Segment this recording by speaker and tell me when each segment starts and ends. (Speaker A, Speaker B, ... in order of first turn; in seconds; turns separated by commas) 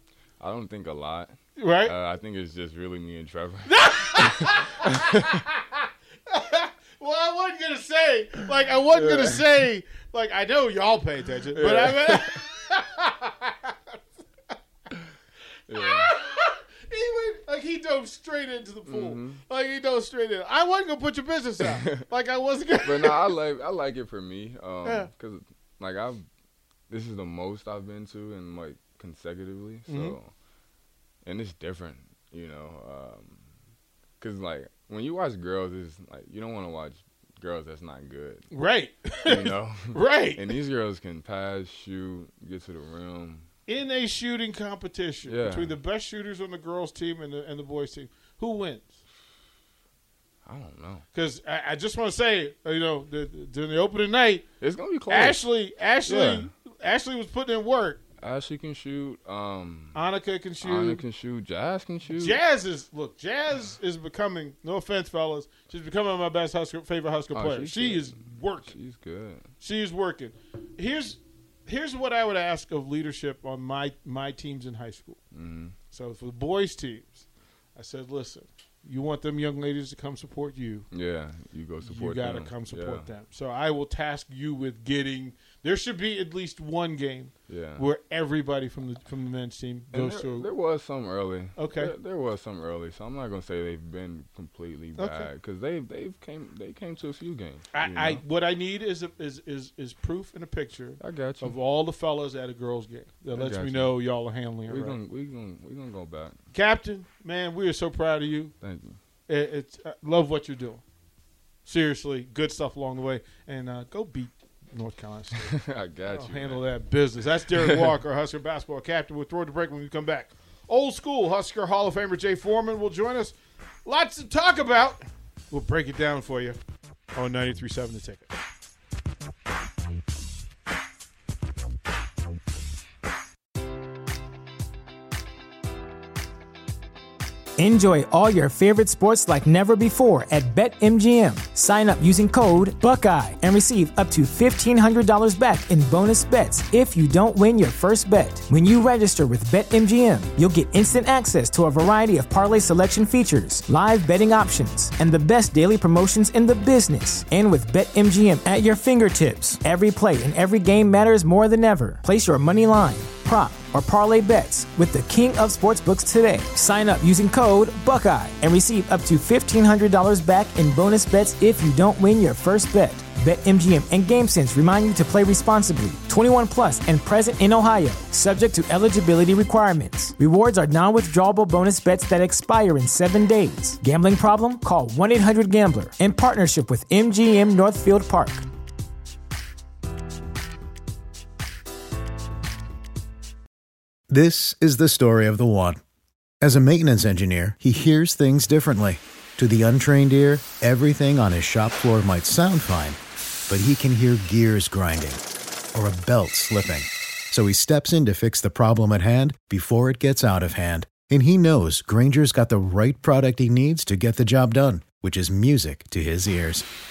Speaker A: 0.4-5.3, Speaker B: 1.6-1.9, Speaker B: 3.7-14.0, Speaker A: 8.9-9.6, Speaker A: 11.5-12.4, Speaker A: 15.7-16.1, Speaker B: 15.7-23.3, Speaker A: 18.9-19.4, Speaker A: 21.6-22.0, Speaker A: 22.8-26.2, Speaker B: 24.8-25.1, Speaker A: 26.9-30.3, Speaker B: 29.9-30.2, Speaker A: 31.2-33.4, Speaker A: 34.2-38.5, Speaker B: 38.5-40.6, Speaker A: 39.2-43.5, Speaker B: 43.7-48.9, Speaker A: 45.2-45.8, Speaker A: 50.4-51.0, Speaker B: 51.1-54.5, Speaker A: 54.6-55.5, Speaker B: 55.1-58.0, Speaker A: 56.0-56.5, Speaker A: 58.2-60.0, Speaker B: 59.9-61.0, Speaker A: 60.6-62.4, Speaker B: 62.1-68.8, Speaker A: 67.3-69.5, Speaker B: 69.6-75.2, Speaker A: 75.3-75.8, Speaker B: 75.9-77.2, Speaker B: 77.7-80.9, Speaker A: 80.9-83.1, Speaker B: 81.8-90.5, Speaker A: 87.5-87.9, Speaker A: 89.9-98.2, Speaker B: 91.6-91.9, Speaker B: 95.0-95.3, Speaker B: 97.7-105.0, Speaker A: 101.0-101.6, Speaker A: 103.3-104.0, Speaker A: 104.7-106.4, Speaker B: 106.5-108.5, Speaker A: 108.6-109.0, Speaker B: 109.3-110.8, Speaker B: 111.7-115.6, Speaker A: 115.3-116.7, Speaker B: 116.1-126.6, Speaker A: 117.5-117.9, Speaker B: 127.1-128.3, Speaker C: 137.6-188.4, Speaker D: 194.1-195.8, Speaker D: 196.4-203.0, Speaker D: 203.5-205.2, Speaker D: 205.7-216.7